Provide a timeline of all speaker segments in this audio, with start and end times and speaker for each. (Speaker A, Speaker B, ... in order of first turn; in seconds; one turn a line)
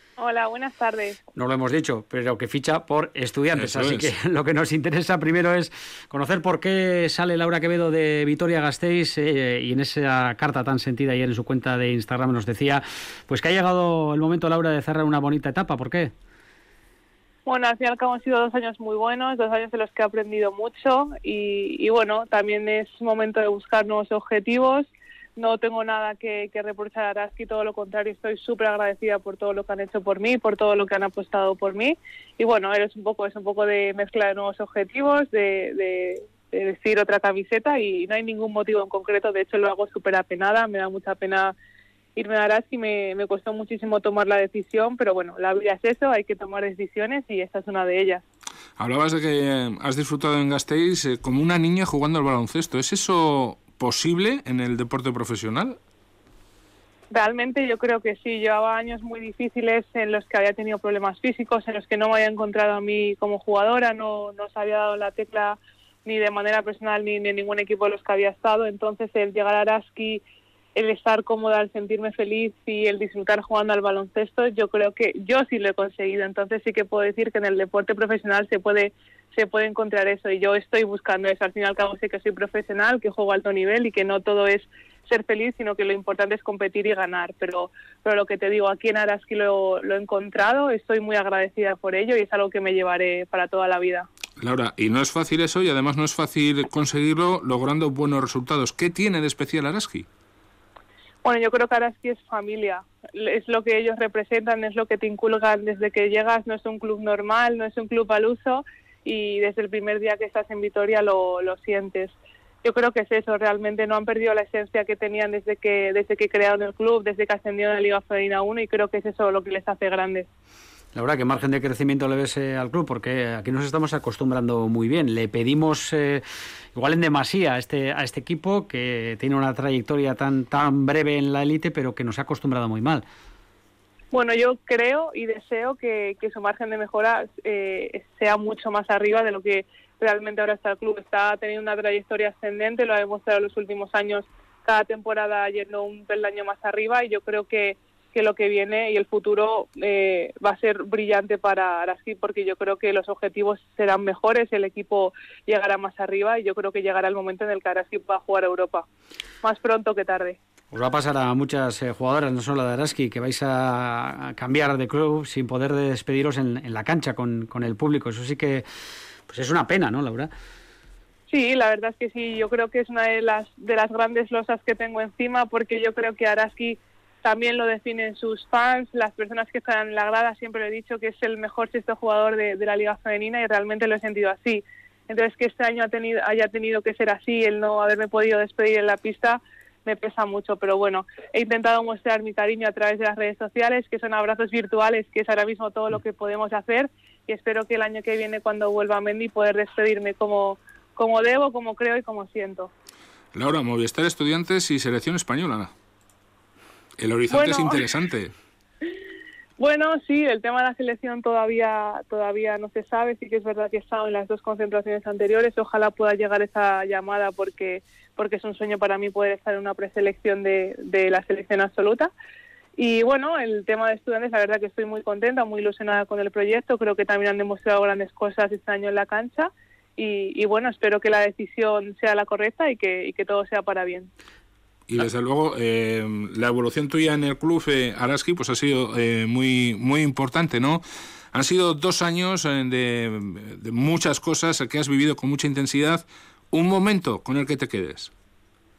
Speaker A: 0.2-1.2
Speaker B: 1.3-16.1
Speaker C: 3.5-4.1
Speaker A: 17.4-41.5
Speaker A: 42.1-48.2
Speaker C: 48.8-55.8
Speaker A: 57.1-70.2
Speaker A: 70.7-94.1
Speaker C: 94.4-100.1
Speaker A: 101.2-120.3
Speaker B: 120.9-126.2
Speaker B: 126.7-133.0
Speaker A: 134.1-158.8
Speaker A: 159.4-160.4
Speaker B: 160.7-168.6
Speaker B: 169.3-170.3
Speaker A: 171.3-202.7
Speaker C: 203.3-205.7
Speaker C: 207.0-208.3
Speaker A: 207.3-207.8
Speaker A: 209.6-222.1
Speaker A: 222.8-234.1
Speaker C: 234.9-240.8
Speaker C: 241.3-248.1